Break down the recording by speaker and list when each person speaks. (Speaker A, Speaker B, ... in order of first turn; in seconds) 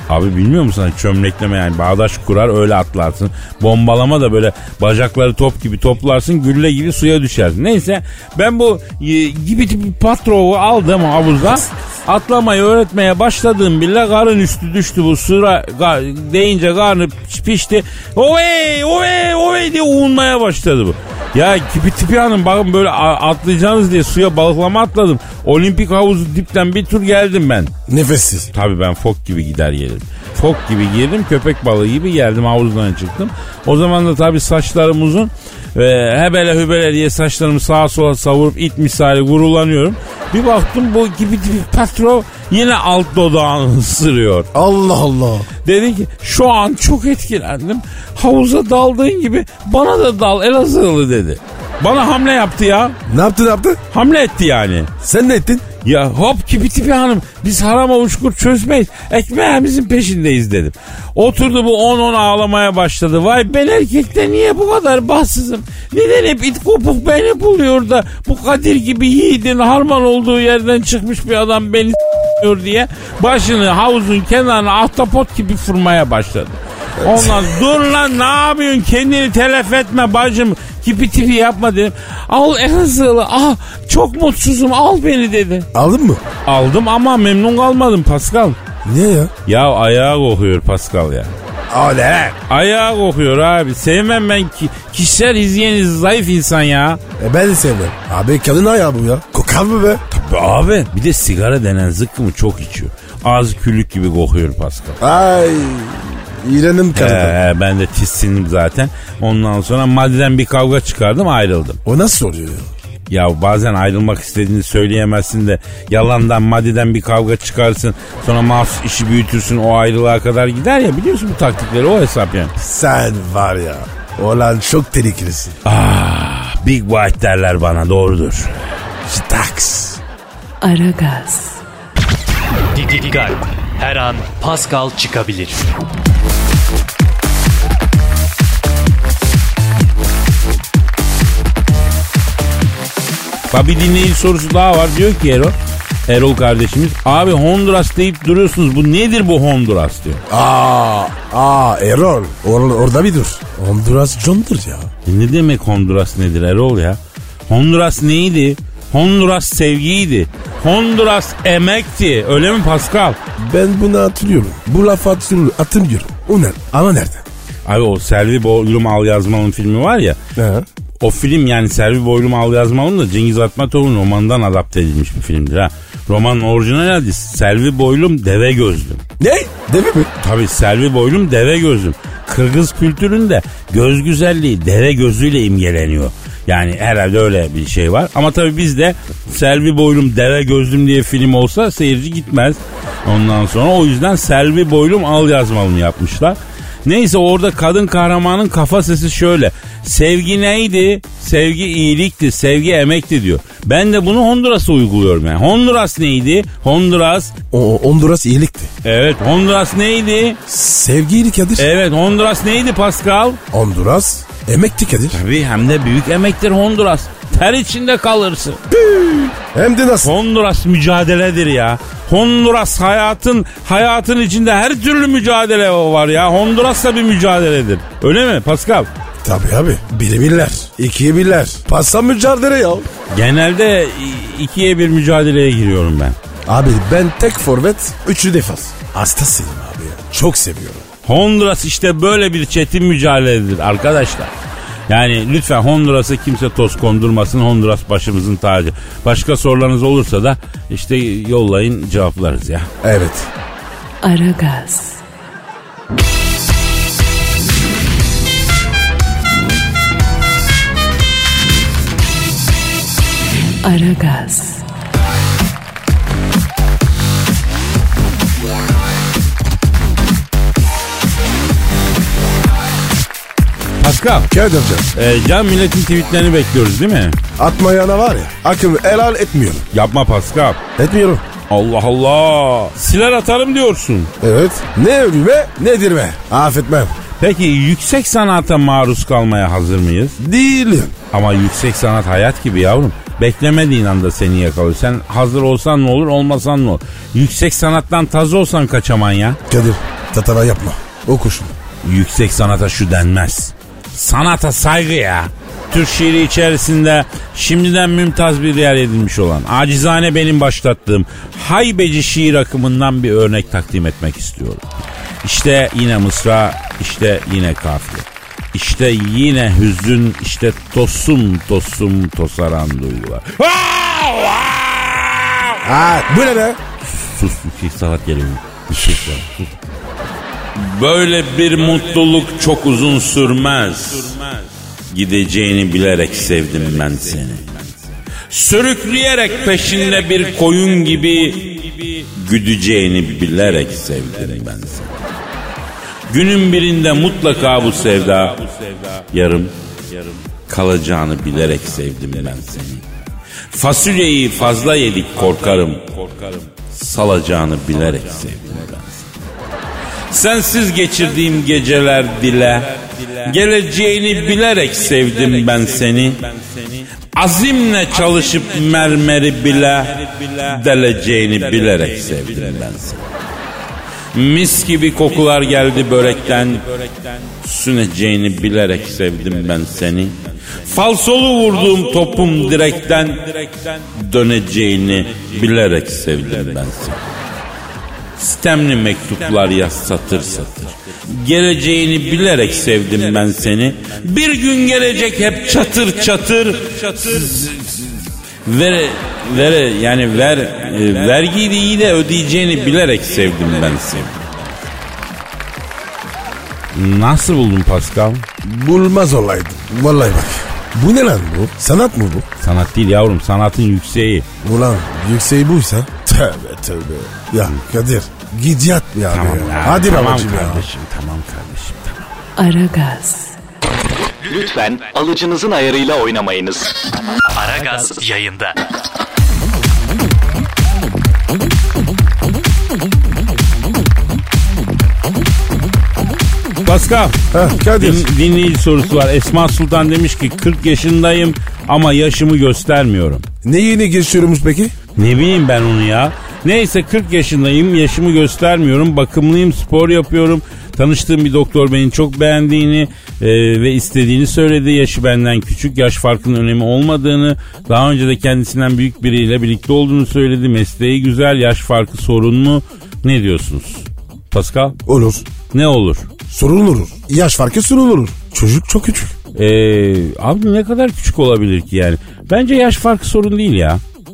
Speaker A: 0.1-27.7, 28.5-44.5, 45.6-53.0, 53.9-54.9, 55.8-85.7, 86.5-88.6, 89.5-91.3, 92.5-97.0, 100.1-105.0, 107.0-111.8, 113.1-122.5, 125.7-128.7, 143.5-145.6, 146.1-150.2, 155.1-163.2, 167.7-170.2, 171.0-179.0, 180.2-207.3, 208.8-210.4, 211.6-213.4, 215.1-219.2, 220.0-228.9, 233.1-236.2, 241.1-244.3, 244.9-252.7, 273.8-274.3, 274.9-277.2, 279.7-280.6, 281.5-284.1, 287.2-290.2, 291.1-299.4, 301.8-314.6, 315.2-325.6, 326.8-329.5, 330.6-334.4, 334.9-337.6, 338.3-344.9, 346.1-352.8, 353.5-359.1, 360.1-373.1, 374.1-387.2, 388.2-404.3, 406.7-408.3, 412.4-414.3, 419.1-422.1, 436.6-437.2, 437.8-443.2, 445.0-464.8, 465.5-466.1, 469.4-473.8
Speaker B: 27.9-28.5, 44.5-45.5, 53.1-53.8, 55.0-55.7, 77.0-77.5, 85.7-86.2, 88.8-89.3, 91.7-92.4, 97.2-100.0, 105.0-107.4, 111.8-112.7, 122.6-125.6, 129.1-130.0, 150.3-154.9, 163.4-167.2, 170.4-170.7, 179.2-180.1, 207.5-208.7, 210.5-211.7, 213.5-215.2, 218.7-220.1, 229.2-232.9, 236.5-240.9, 252.8-253.3, 274.3-274.9, 277.4-279.7, 280.8-281.2, 284.2-287.0, 290.2-290.9, 299.5-301.6, 325.6-326.6, 328.8-329.2, 408.4-412.3, 414.4-420.7, 437.3-438.1, 443.4-444.8, 464.9-465.2, 466.3-469.2
Speaker C: 130.6-131.6, 254.0-255.0, 263.6-264.6, 422.4-423.4
Speaker D: 132.7-135.7, 427.4-428.6
Speaker E: 424.2-426.7